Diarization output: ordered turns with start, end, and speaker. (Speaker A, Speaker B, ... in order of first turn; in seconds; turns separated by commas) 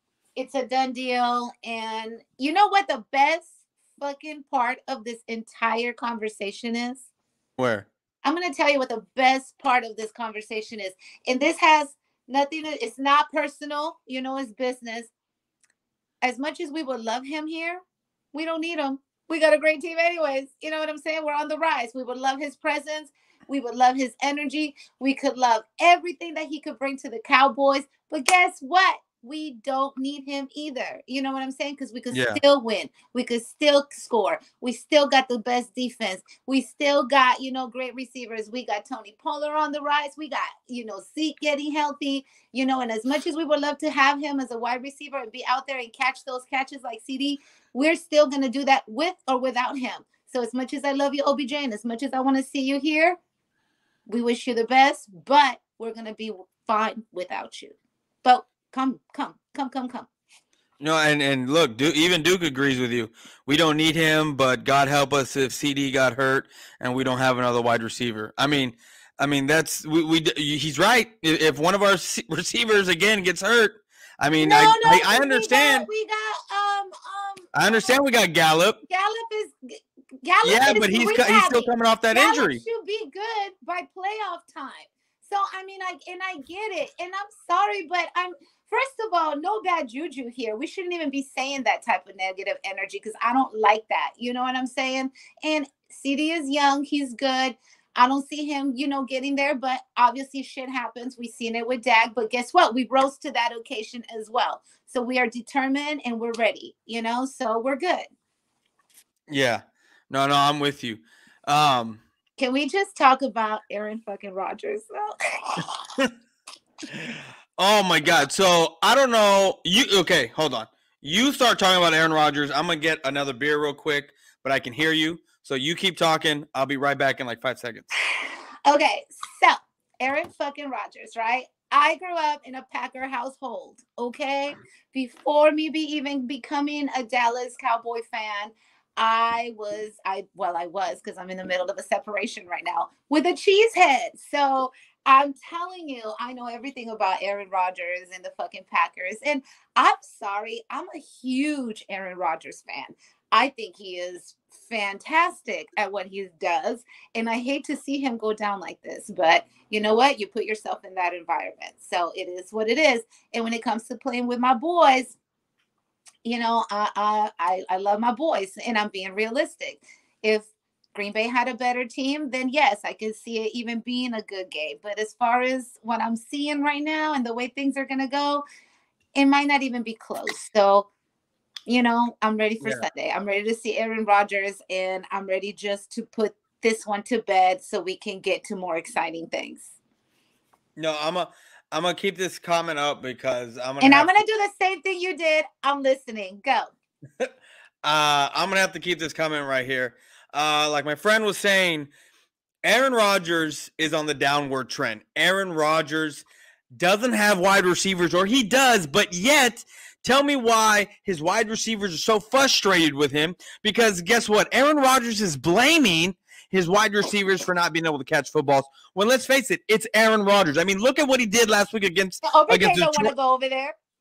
Speaker A: 0.4-7.1, Speaker B: 7.6-7.9, Speaker A: 8.2-15.1, Speaker A: 16.2-17.8, Speaker A: 18.3-53.2, Speaker B: 32.1-32.4, Speaker A: 54.1-60.1, Speaker B: 60.8-75.9, Speaker A: 74.4-77.9, Speaker B: 77.5-78.8, Speaker A: 78.9-108.1, Speaker B: 80.4-82.6, Speaker B: 109.3-112.0, Speaker A: 112.4-115.7, Speaker B: 116.9-127.9, Speaker A: 128.7-165.2, Speaker A: 166.2-178.4, Speaker A: 179.2-180.9, Speaker A: 181.7-189.7, Speaker B: 190.8-194.1, Speaker A: 193.8-196.7, Speaker B: 197.8-201.9, Speaker B: 202.6-223.1, Speaker A: 222.2-223.8